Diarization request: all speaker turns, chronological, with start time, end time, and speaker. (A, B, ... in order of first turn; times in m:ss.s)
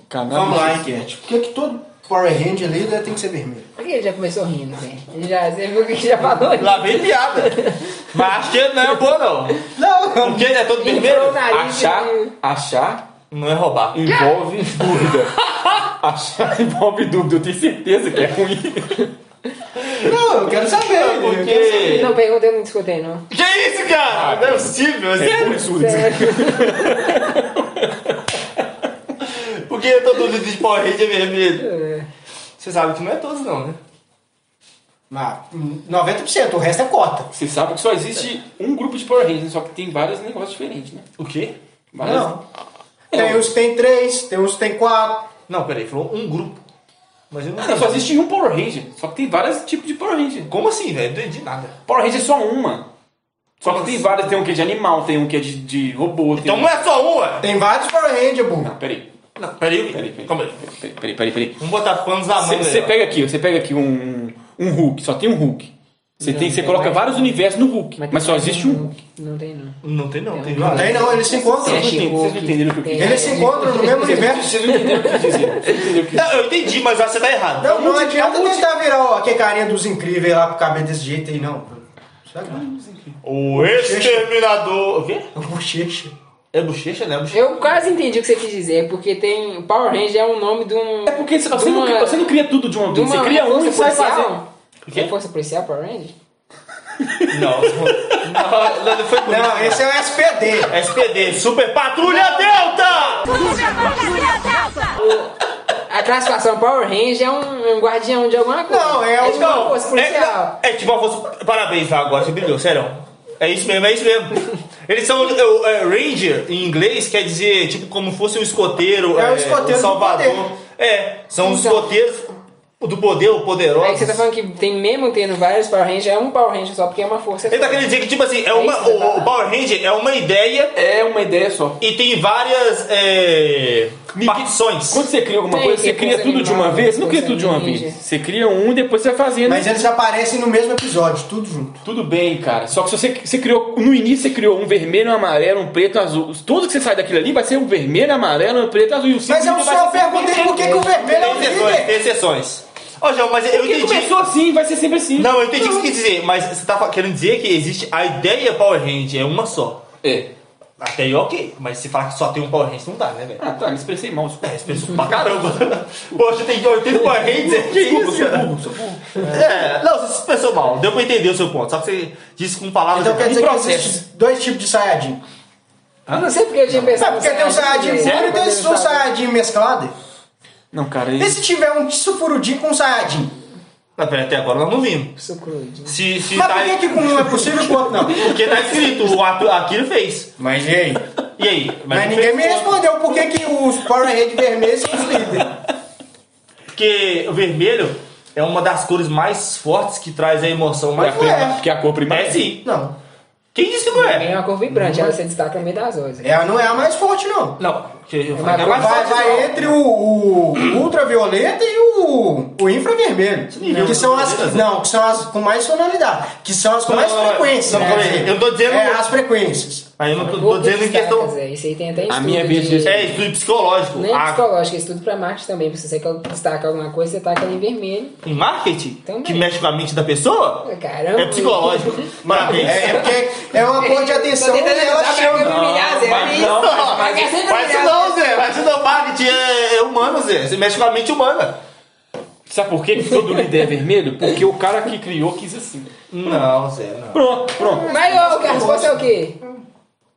0:00.1-0:01.0 A
0:00.3-0:03.6 B
0:03.8-0:07.8 C
0:06.6-0:09.6 D
0:09.7-0:10.5 B
0:10.2-0:11.4 D
0:10.8-0:12.3 C
0:11.5-0:13.0 A
0:13.3-0:14.1 D
0:13.9-0:19.1 A
0:19.8-0:22.2 D
0:20.0-0:21.7 B
0:21.5-0:23.2 C
0:23.3-0:25.8 D
0:24.1-0:28.1 A
0:25.7-0:27.1 C
0:29.2-0:31.6 D
0:31.6-0:32.1 C
0:32.6-0:33.8 D
0:35.1-0:37.3 B
0:37.3-0:41.0 A
0:41.2-0:42.4 D
0:41.9-0:42.3 A
0:42.0-0:42.3 B
0:43.1-0:45.3 B
0:43.1-0:43.4 A
0:45.5-0:46.6 D
0:47.3-0:48.1 D
0:47.6-0:50.5 A
0:50.5-0:51.7 D
0:51.9-0:52.9 A
0:53.6-0:56.7 A
0:53.6-0:54.3 D
0:56.3-0:57.5 D
0:57.4-0:58.7 B
0:58.6-0:59.1 A
0:59.4-1:00.6 D
0:59.9-1:01.6 A
1:01.6-1:03.0 D
1:02.3-1:08.9 A
1:06.2-1:07.3 C
1:08.0-1:09.8 C
1:09.8-1:11.2 D
1:10.3-1:15.7 C
1:10.6-1:11.9 B
1:11.6-1:16.4 A
1:13.0-1:14.7 B
1:16.1-1:18.0 D
1:17.6-1:22.6 B
1:17.7-1:18.6 A
1:22.5-1:23.2 A
1:23.2-1:25.3 D
1:23.5-1:24.3 B
1:25.3-1:26.1 B
1:26.5-1:27.8 D
1:27.3-1:32.3 C
1:31.1-1:34.4 A
1:32.9-1:36.1 C
1:34.8-1:35.1 D
1:37.0-1:38.3 A
1:37.3-1:39.9 D
1:39.2-1:40.7 B
1:40.6-1:43.4 D
1:45.9-1:50.5 C
1:48.7-1:49.8 B
1:49.2-2:04.2 D
1:59.1-2:00.4 B
2:01.4-2:01.9 C
2:03.8-2:07.9 C
2:07.5-2:10.7 D
2:08.5-2:09.3 C
2:10.8-2:11.8 A
2:11.8-2:15.0 D
2:14.1-2:19.7 A
2:15.5-2:18.0 C
2:19.4-2:21.8 B
2:21.8-2:31.5 A
2:29.3-2:31.9 B
2:30.9-2:34.2 D
2:33.5-2:35.4 A
2:35.1-2:39.8 D
2:40.0-2:40.3 A
2:40.8-2:43.4 D
2:43.4-2:45.3 A
2:44.4-2:48.5 D
2:47.0-2:49.3 A
2:49.2-2:53.4 D
2:52.9-2:55.2 B
2:53.2-2:54.0 A
2:56.1-2:59.1 C
2:57.0-2:59.9 B
3:00.7-3:01.4 A
3:01.2-3:03.3 B
3:04.0-3:05.1 D
3:05.2-3:06.0 C
3:05.8-3:10.3 D
3:06.3-3:08.3 B
3:10.4-3:11.0 B
3:11.4-3:12.9 D
3:11.9-3:15.6 B
3:16.7-3:22.7 D
3:21.0-3:22.5 A
3:21.0-3:21.6 B
3:22.6-3:22.9 B
3:23.5-3:24.4 D
3:23.9-3:26.3 C
3:24.7-3:25.2 B
3:26.2-3:27.6 B
3:27.6-3:29.7 D
3:28.3-3:29.5 C
3:28.6-3:39.9 B
3:33.5-3:34.8 D
3:36.8-3:39.0 D
3:40.0-3:41.3 D
3:40.2-3:43.0 C
3:42.1-3:43.2 A
3:42.8-3:44.4 D
3:43.9-3:48.2 C
3:48.2-3:53.1 D
3:49.0-3:49.5 C
3:50.6-3:53.1 C
3:52.2-3:55.5 B
3:53.7-3:58.3 C
3:55.4-3:57.3 A
3:56.0-4:01.6 D
4:02.5-4:05.9 A
4:06.1-4:07.2 D
4:07.1-4:08.2 A
4:07.8-4:09.5 B
4:07.8-4:09.4 C